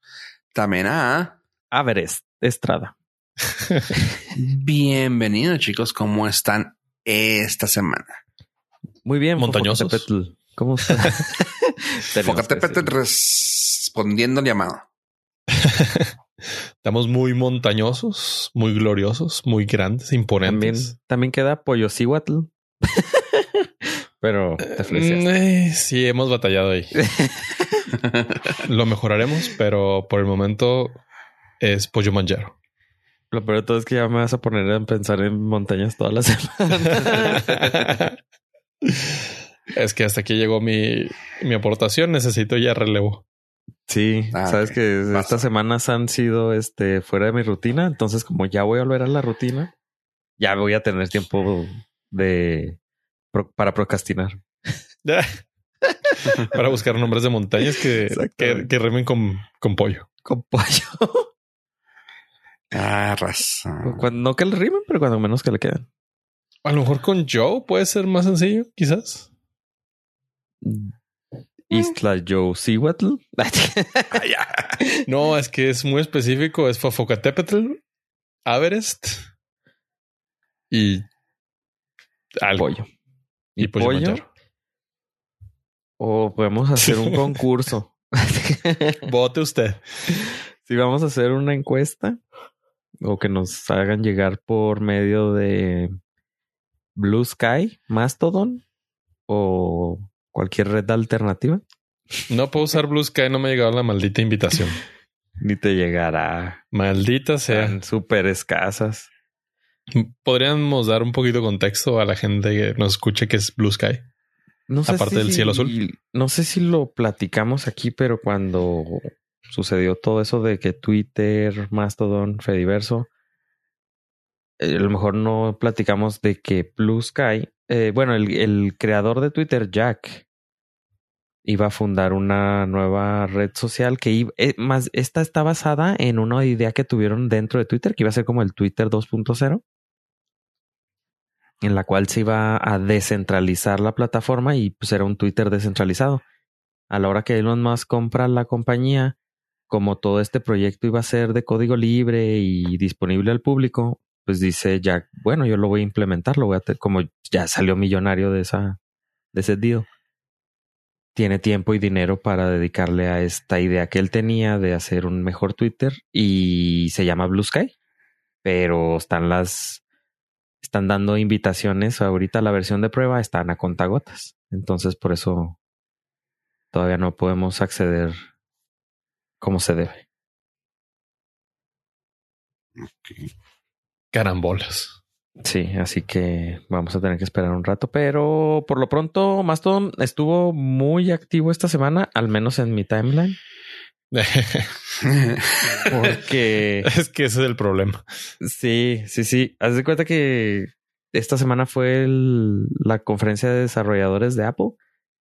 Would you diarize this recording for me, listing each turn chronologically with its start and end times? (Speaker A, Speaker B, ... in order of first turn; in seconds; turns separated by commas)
Speaker A: 0.5-1.4, Speaker B: 1.7-2.9, Speaker A: 4.3-8.2, Speaker B: 9.0-12.9, Speaker C: 9.4-10.0, Speaker A: 12.2-14.8, Speaker C: 15.5-16.1, Speaker C: 16.8-20.9, Speaker B: 20.4-23.7, Speaker B: 24.2-25.3, Speaker C: 24.7-26.9, Speaker B: 26.9-27.9, Speaker A: 28.0-28.6, Speaker C: 28.6-31.0, Speaker C: 31.6-32.5, Speaker B: 33.3-37.5, Speaker C: 37.6-38.1, Speaker C: 38.8-43.2, Speaker B: 43.9-49.7, Speaker A: 44.3-45.5, Speaker B: 50.4-52.8, Speaker B: 53.3-54.4, Speaker C: 55.0-55.4, Speaker B: 55.9-56.6, Speaker C: 56.4-60.1, Speaker B: 57.6-58.7, Speaker B: 60.2-61.3, Speaker A: 62.7-64.1, Speaker B: 63.8-65.9, Speaker C: 66.6-69.3, Speaker B: 70.6-70.9, Speaker B: 71.7-74.2, Speaker A: 74.1-74.8, Speaker C: 75.0-77.8, Speaker C: 78.5-79.3, Speaker C: 80.7-81.0, Speaker C: 82.4-82.7, Speaker B: 82.6-82.9, Speaker B: 83.6-84.2, Speaker C: 83.6-84.3, Speaker B: 86.0-89.0, Speaker C: 86.8-87.3, Speaker C: 89.0-89.9, Speaker B: 90.1-92.2, Speaker B: 93.0-96.0, Speaker B: 97.0-98.6, Speaker B: 99.3-101.6, Speaker C: 102.3-104.8, Speaker B: 105.4-106.6, Speaker C: 106.7-107.8, Speaker B: 107.5-109.1, Speaker C: 109.9-114.0, Speaker B: 114.7-123.1, Speaker C: 114.8-115.7, Speaker B: 124.6-130.2, Speaker B: 131.4-139.6, Speaker B: 141.6-146.2, Speaker B: 146.9-149.2, Speaker B: 149.7-158.8, Speaker B: 159.3-159.9, Speaker B: 161.2-167.7, Speaker B: 168.4-169.8, Speaker B: 170.6-175.6, Speaker B: 176.7-178.2, Speaker B: 179.4-180.0, Speaker A: 182.8-183.3, Speaker C: 184.1-185.0, Speaker B: 185.4-193.4, Speaker C: 194.1-194.7, Speaker A: 195.0-195.9, Speaker C: 195.8-196.2, Speaker B: 195.8-196.9, Speaker C: 196.8-198.0, Speaker B: 198.4-204.8